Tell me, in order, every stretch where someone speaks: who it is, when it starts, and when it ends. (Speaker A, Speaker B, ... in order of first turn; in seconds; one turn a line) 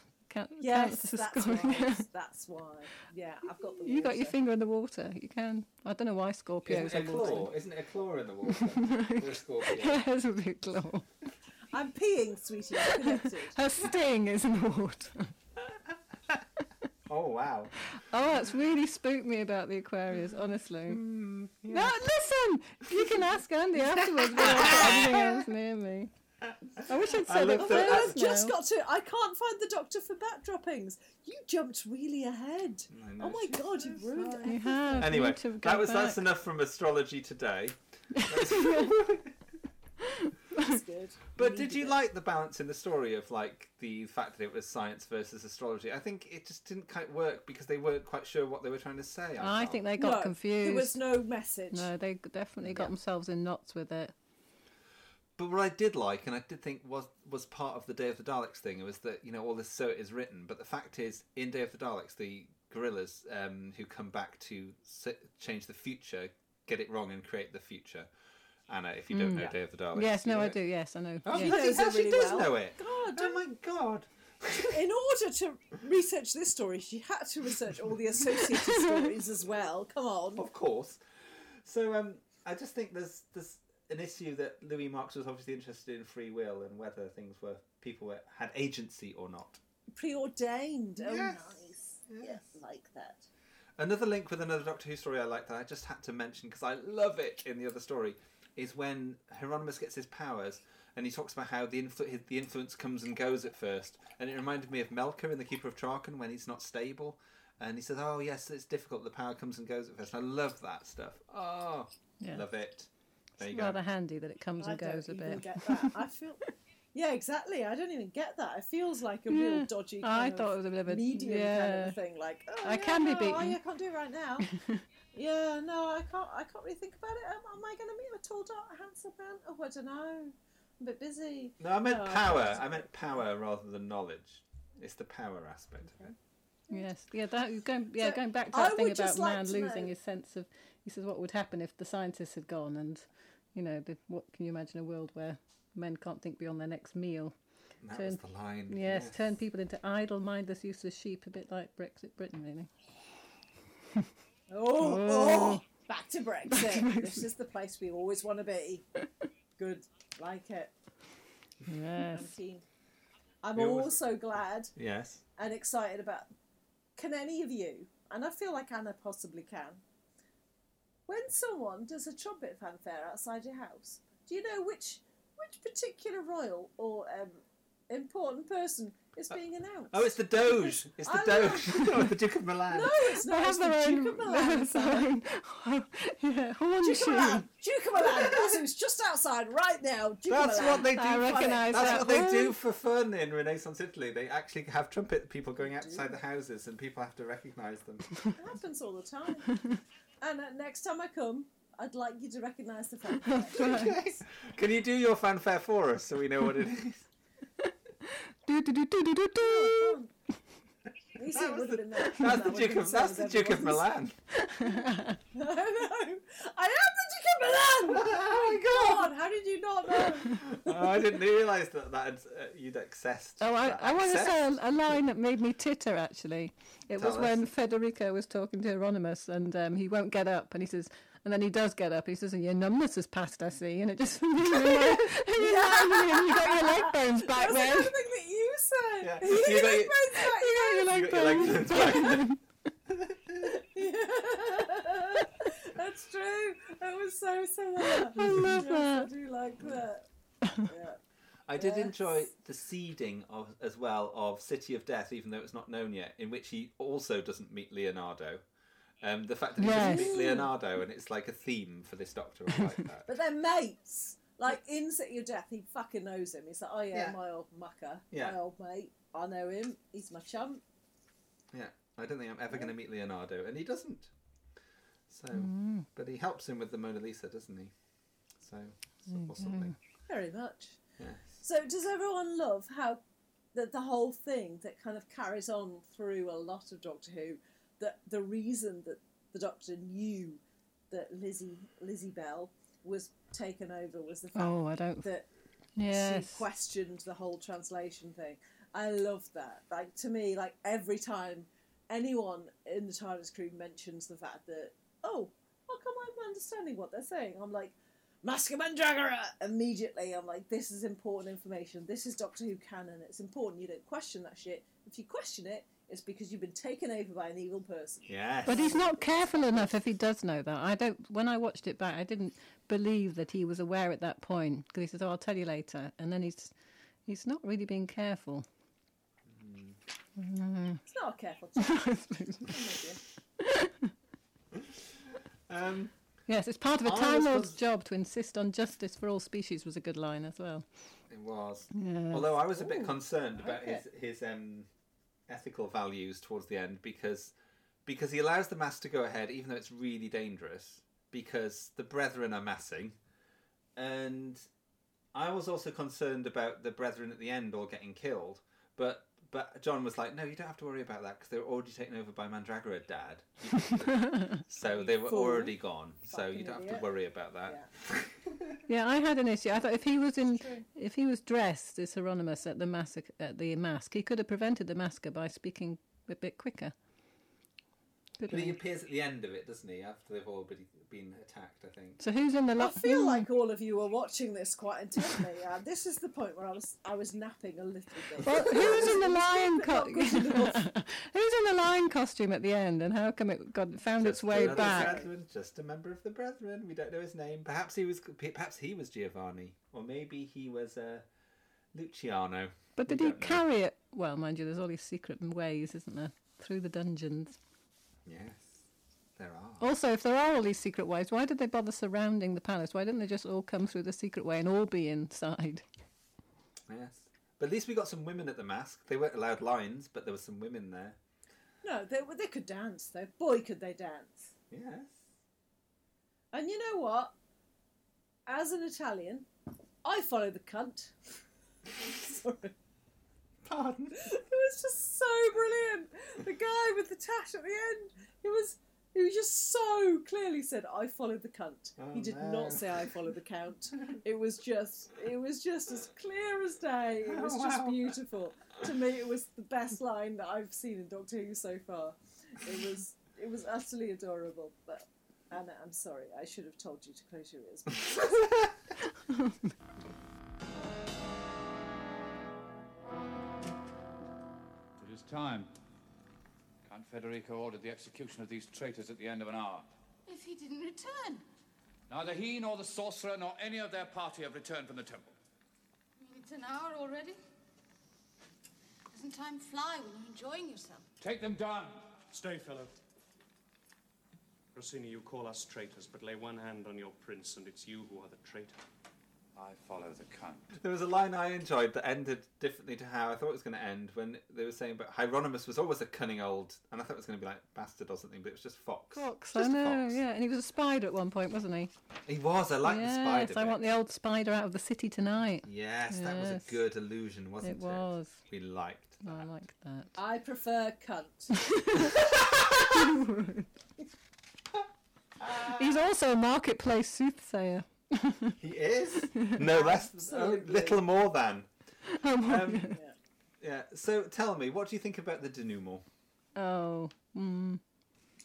Speaker A: 0.3-2.0
Speaker B: 0.6-4.3
Speaker A: 3.8-7.5
Speaker C: 6.6-10.0
Speaker A: 8.5-11.1
Speaker B: 11.7-13.5
Speaker A: 12.9-15.3
Speaker C: 17.1-17.8
Speaker A: 17.9-21.0
Speaker C: 20.9-21.9
Speaker A: 21.7-26.1
Speaker C: 22.9-23.2
Speaker C: 24.1-25.4
Speaker C: 26.8-28.2
Speaker A: 26.8-28.6
Speaker B: 27.6-35.1
Speaker C: 32.9-39.3
Speaker A: 34.5-36.2
Speaker A: 38.1-39.1
Speaker A: 40.0-40.8
Speaker B: 40.5-42.0
Speaker C: 41.4-49.8
Speaker A: 49.4-51.0
Speaker B: 50.0-51.9
Speaker A: 51.7-54.1
Speaker C: 52.6-52.9
Speaker C: 55.4-68.1
Speaker C: 68.7-70.6
Speaker A: 69.1-71.5
Speaker C: 71.2-74.8
Speaker B: 71.3-73.5
Speaker B: 74.7-80.4
Speaker C: 80.3-89.6
Speaker B: 89.9-93.3
Speaker C: 91.0-91.5
Speaker C: 92.1-92.5
Speaker C: 93.8-113.8
Speaker A: 113.4-116.0
Speaker B: 114.6-116.4
Speaker B: 116.9-124.5
Speaker A: 119.3-122.0
Speaker A: 122.6-123.6
Speaker A: 124.4-124.8
Speaker B: 125.1-132.9
Speaker C: 131.6-136.1
Speaker B: 135.9-136.1
Speaker A: 136.7-147.3
Speaker B: 138.0-139.9
Speaker C: 147.8-149.2
Speaker A: 147.9-152.7
Speaker B: 154.5-158.8
Speaker A: 154.8-155.6
Speaker A: 156.5-157.2
Speaker B: 159.6-160.7
Speaker A: 161.7-162.3
Speaker B: 162.1-162.6
Speaker B: 163.4-164.7
Speaker C: 163.5-164.0
Speaker C: 164.8-165.2
Speaker B: 165.3-166.3
Speaker B: 167.0-169.8
Speaker B: 171.1-181.8
Speaker C: 179.9-182.9
Speaker B: 182.7-185.1
Speaker A: 183.2-187.5
Speaker B: 186.8-192.1
Speaker C: 188.2-188.5
Speaker C: 190.3-198.2
Speaker A: 190.8-192.6
Speaker B: 195.6-196.1
Speaker B: 198.3-199.5
Speaker B: 200.2-203.9
Speaker A: 203.2-204.0
Speaker C: 203.5-207.1
Speaker A: 208.4-210.0
Speaker B: 209.3-210.1
Speaker B: 211.2-213.8
Speaker C: 211.2-214.2
Speaker A: 214.4-215.2
Speaker B: 215.3-220.9
Speaker C: 217.8-219.1
Speaker C: 220.1-225.0
Speaker A: 223.4-237.9
Speaker C: 226.9-227.4
Speaker B: 235.3-241.7
Speaker C: 239.0-240.1
Speaker A: 240.2-242.4
Speaker C: 240.8-242.3
Speaker C: 242.9-243.5
Speaker B: 243.5-250.1
Speaker A: 247.9-249.1
Speaker C: 248.3-248.6
Speaker B: 250.6-251.0
Speaker C: 251.5-258.4
Speaker B: 251.6-252.3
Speaker C: 259.0-263.1
Speaker A: 259.6-260.2
Speaker B: 259.7-260.5
Speaker B: 263.1-270.6
Speaker C: 266.9-267.2
Speaker C: 271.5-274.1
Speaker C: 275.1-277.7
Speaker A: 275.3-275.9
Speaker C: 278.4-279.7
Speaker A: 279.1-279.7
Speaker B: 280.1-280.8
Speaker C: 281.0-281.3
Speaker B: 281.4-283.0
Speaker B: 283.5-295.2
Speaker A: 294.3-295.1
Speaker A: 295.8-296.4
Speaker B: 295.9-319.7
Speaker C: 318.1-318.8
Speaker A: 318.4-326.5
Speaker A: 327.1-328.4
Speaker C: 329.3-329.8
Speaker A: 330.2-330.8
Speaker B: 330.9-333.0
Speaker A: 331.6-332.6
Speaker A: 333.4-333.9
Speaker C: 335.5-335.9
Speaker A: 336.3-340.6
Speaker C: 336.8-337.6
Speaker C: 341.1-344.7
Speaker A: 341.7-342.4
Speaker B: 342.6-343.8
Speaker C: 345.3-347.3
Speaker C: 347.9-353.0
Speaker C: 353.8-354.5
Speaker C: 355.1-368.6
Speaker A: 364.0-364.4
Speaker B: 364.6-366.9
Speaker A: 368.7-376.7
Speaker B: 370.3-370.6
Speaker A: 378.2-378.6
Speaker C: 378.3-382.0
Speaker A: 382.0-383.3
Speaker B: 382.6-390.6
Speaker A: 388.2-395.0
Speaker C: 388.3-389.0
Speaker C: 394.0-401.1
Speaker B: 394.3-395.1
Speaker C: 401.7-403.4
Speaker A: 402.8-407.4
Speaker C: 408.1-408.6
Speaker C: 409.2-409.7
Speaker A: 409.6-415.6
Speaker C: 416.7-421.0
Speaker B: 421.6-424.3
Speaker C: 424.5-425.0
Speaker B: 426.3-427.1
Speaker B: 428.3-429.3
Speaker B: 429.8-431.1
Speaker B: 431.8-432.5
Speaker C: 433.4-434.0
Speaker B: 434.0-458.5
Speaker C: 441.8-442.9
Speaker C: 447.1-447.9
Speaker A: 459.1-459.3
Speaker D: 464.8-465.5
Speaker D: 466.6-469.7
Speaker E: 470.1-471.2
Speaker D: 471.9-475.1
Speaker E: 476.0-477.2
Speaker E: 478.9-480.9
Speaker D: 481.0-482.0
Speaker F: 482.1-482.8
Speaker F: 484.5-488.6
Speaker D: 489.3-490.6
Speaker C: 490.5-500.0
Speaker A: 498.9-501.7
Speaker C: 502.1-503.6
Speaker A: 502.6-506.6
Speaker C: 505.4-509.3
Speaker A: 507.4-508.2
Speaker A: 509.0-509.9
Speaker B: 509.9-511.4
Speaker A: 511.3-513.5
Speaker C: 511.8-512.7
Speaker C: 515.2-515.8
Speaker A: 515.5-518.4
Speaker C: 518.4-521.5
Speaker A: 519.1-519.5
Speaker B: 519.4-520.8
Speaker A: 521.9-522.8
Speaker C: 522.2-522.8
Speaker B: 522.7-522.9
Speaker C: 523.4-525.8
Speaker A: 526.4-527.6